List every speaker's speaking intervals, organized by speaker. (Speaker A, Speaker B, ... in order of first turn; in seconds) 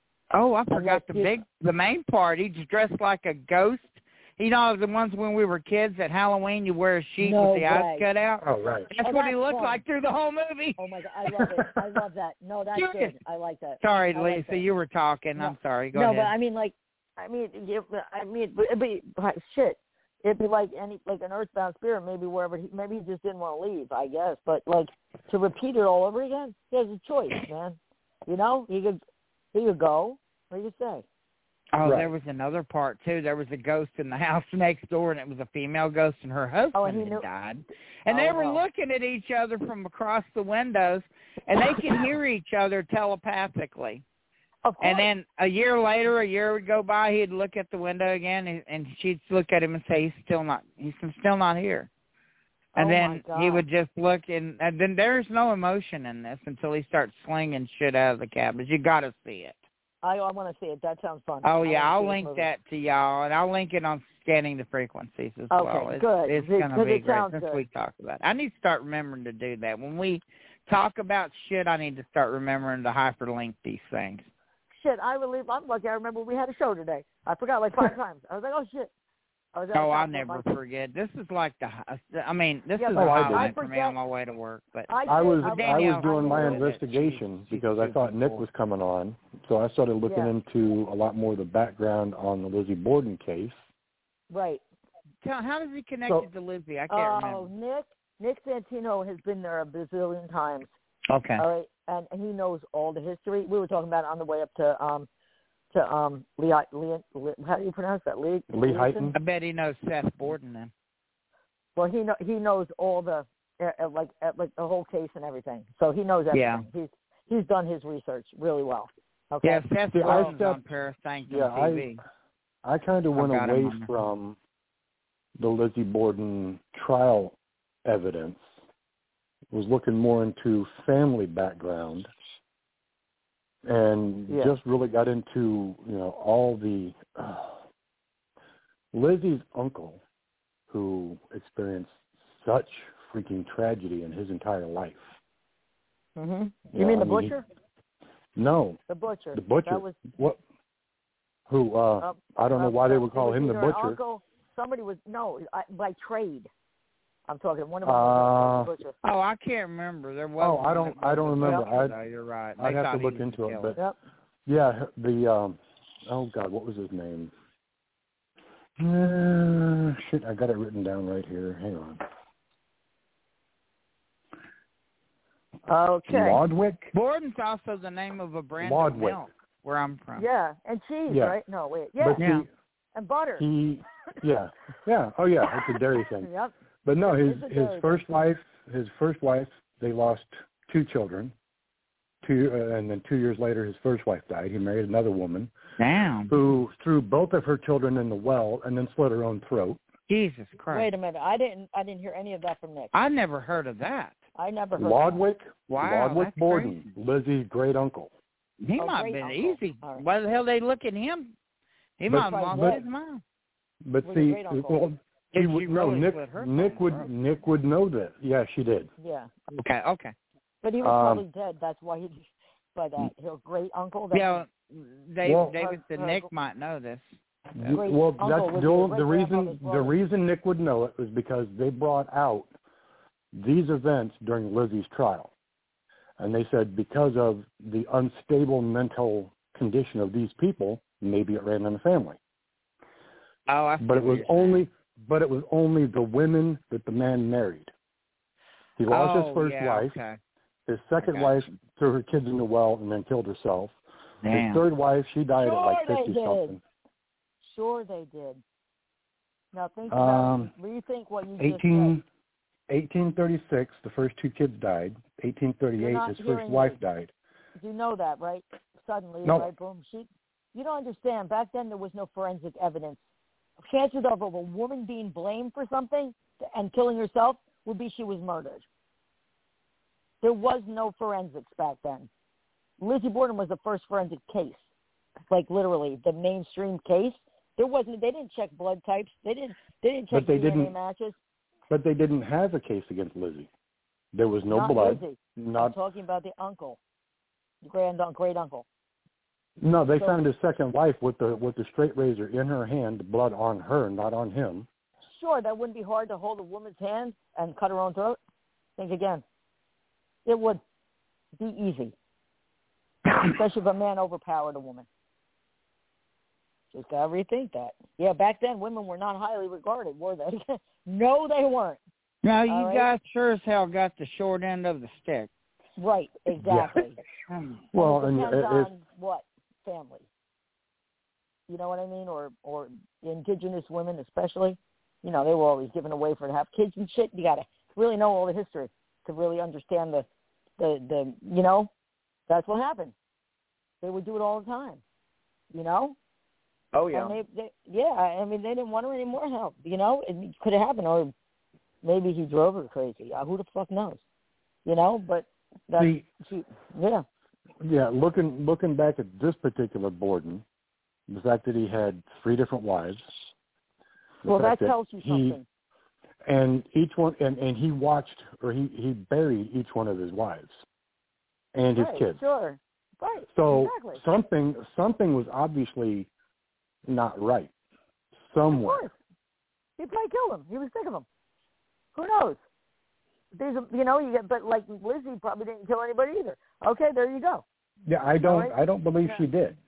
Speaker A: 0.3-11.7, 12.8-13.2, 13.8-16.3, 31.7-44.0, 44.8-51.9, 52.8-59.6, 61.4-74.3, 79.7-84.9, 85.4-88.5, 95.2-97.5, 101.1-101.4, 109.1-110.7, 116.3-116.7, 119.4-122.0, 123.1-123.9, 159.0-163.7, 176.9-180.2, 182.2-182.4, 195.8-196.3, 200.1-200.9, 202.9-204.2, 205.7-206.9, 208.6-211.3, 212.0-213.2, 215.3-217.1, 219.5-220.1, 224.1-227.0, 243.5-244.6, 248.9-250.2, 251.0-251.6, 254.2-254.6, 322.2-325.3, 327.3-327.6, 346.7-347.2
Speaker B: 0.7-1.4, 7.2-8.0, 9.0-9.8, 10.8-14.7, 15.4-29.0, 29.5-31.0, 36.7-37.2, 38.1-38.6, 44.6-45.1, 52.8-53.6, 60.0-62.5, 65.5-67.6, 74.7-78.9, 79.5-80.4, 82.8-84.0, 84.9-86.7, 90.0-90.3, 94.3-94.6, 96.9-100.7, 101.4-105.1, 105.7-109.1, 111.8-120.4, 146.2-147.4, 148.9-150.0, 152.0-156.5, 157.3-158.9, 175.7-176.4, 180.1-182.2, 182.9-183.4, 186.2-186.5, 187.1-188.0, 200.7-202.9, 204.4-205.2, 208.8-210.0, 212.1-212.8, 214.0-214.9, 219.0-219.3, 220.6-222.2, 222.7-224.4, 225.4-226.3, 227.7-229.9, 255.4-256.6, 257.4-258.4, 259.5-261.9, 265.8-266.8, 267.6-273.0, 273.6-278.6, 280.2-282.1, 282.8-284.6, 285.3-291.1, 294.5-296.8, 297.6-298.6, 305.1-308.2, 308.8-309.2, 310.2-310.6, 311.4-311.9, 313.2-314.9, 316.7-321.8, 322.5-322.9, 325.8-326.9, 327.8-330.1, 331.5-340.1, 340.6-341.7, 342.3-342.9, 343.8-344.8, 345.5-345.9, 346.9-351.1, 351.8-354.0, 354.6-357.0, 364.2-365.4, 371.7-374.0, 378.5-378.9, 379.8-381.0, 381.9-382.4, 383.3-387.4, 388.2-389.2
Speaker C: 8.4-8.9, 31.8-32.1, 82.9-83.5, 85.1-93.6, 108.5-109.2, 119.9-120.6, 121.3-121.9, 122.6-124.4, 125.4-128.5, 129.5-132.1, 133.6-137.6, 138.9-140.0, 140.7-145.2, 146.7-147.4, 148.4-148.8, 149.3-150.4, 151.5-154.0, 157.8-158.7, 160.4-161.9, 162.6-163.8, 164.4-167.3, 168.8-172.0, 176.1-176.9, 178.6-179.2, 181.1-181.4, 182.0-182.5, 183.4-186.3, 186.8-191.3, 192.2-195.5, 196.3-199.8, 204.8-208.1, 212.1-212.8, 213.8-218.9, 220.8-221.2, 225.2-225.6, 227.5-232.5, 233.3-235.3, 236.2-242.2, 243.8-247.7, 248.8-249.9, 250.7-253.8, 254.3-256.6, 259.9-260.5, 261.4-262.0, 262.7-267.1, 269.2-269.5, 290.1-290.7, 291.7-293.5, 294.1-295.8, 299.6-304.7, 326.3-326.8, 327.7-328.7, 355.8-356.1, 357.6-360.4, 361.1-363.1, 364.2-365.4, 366.2-370.6, 371.5-372.2, 373.3-376.1, 376.9-377.5, 378.2-378.8, 387.9-389.6